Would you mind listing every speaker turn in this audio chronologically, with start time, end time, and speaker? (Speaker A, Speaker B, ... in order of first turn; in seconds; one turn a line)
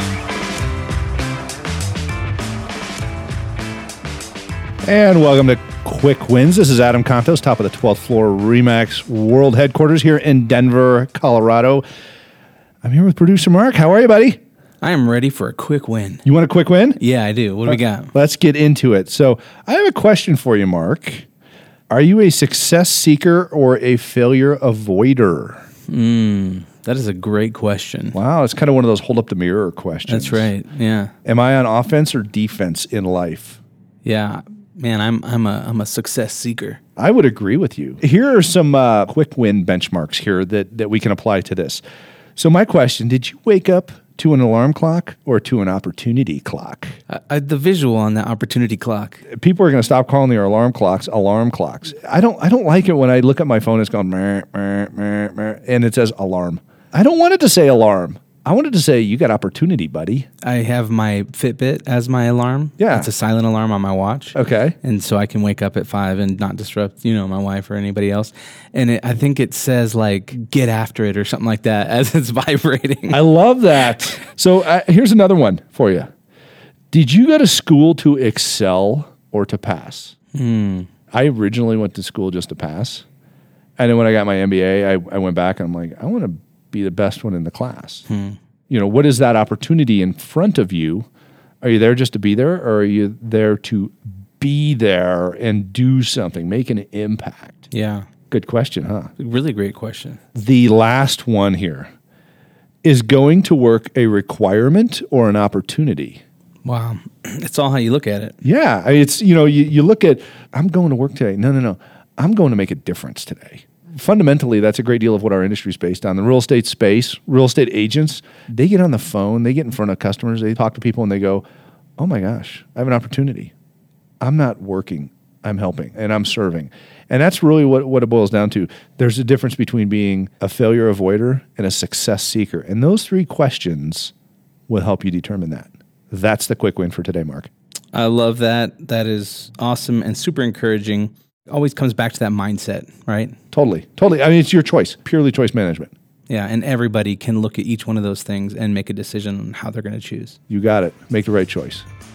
Speaker A: 4.8-11.8
Speaker A: 12.8-14.4
Speaker B: 14.8-16.2
Speaker A: 16.2-17.0
Speaker B: 17.0-18.1
Speaker A: 17.6-21.2
Speaker A: 21.9-25.6
Speaker B: 25.9-28.2
Speaker A: 28.1-30.5
Speaker B: 30.1-31.1
Speaker A: 31.2-33.6
Speaker B: 34.0-36.8
Speaker A: 37.0-41.8
Speaker A: 42.4-47.0
Speaker B: 47.1-49.2
Speaker A: 49.3-60.3
Speaker B: 60.4-73.2
Speaker A: 62.8-63.1
Speaker A: 64.3-64.8
Speaker A: 73.1-76.1
Speaker A: 76.9-80.1
Speaker B: 80.3-80.9
Speaker A: 81.1-83.0
Speaker A: 83.8-88.0
Speaker B: 88.1-88.4
Speaker A: 88.7-91.1
Speaker A: 91.6-97.7
Speaker B: 97.7-98.1
Speaker A: 98.3-99.1
Speaker B: 99.2-100.2
Speaker A: 100.3-101.9
Speaker A: 102.8-106.2
Speaker B: 106.6-108.3
Speaker A: 108.4-121.4
Speaker A: 122.0-123.5
Speaker A: 124.2-134.1
Speaker A: 134.7-137.5
Speaker B: 137.9-143.3
Speaker A: 143.5-145.9
Speaker B: 146.3-150.4
Speaker A: 150.5-151.8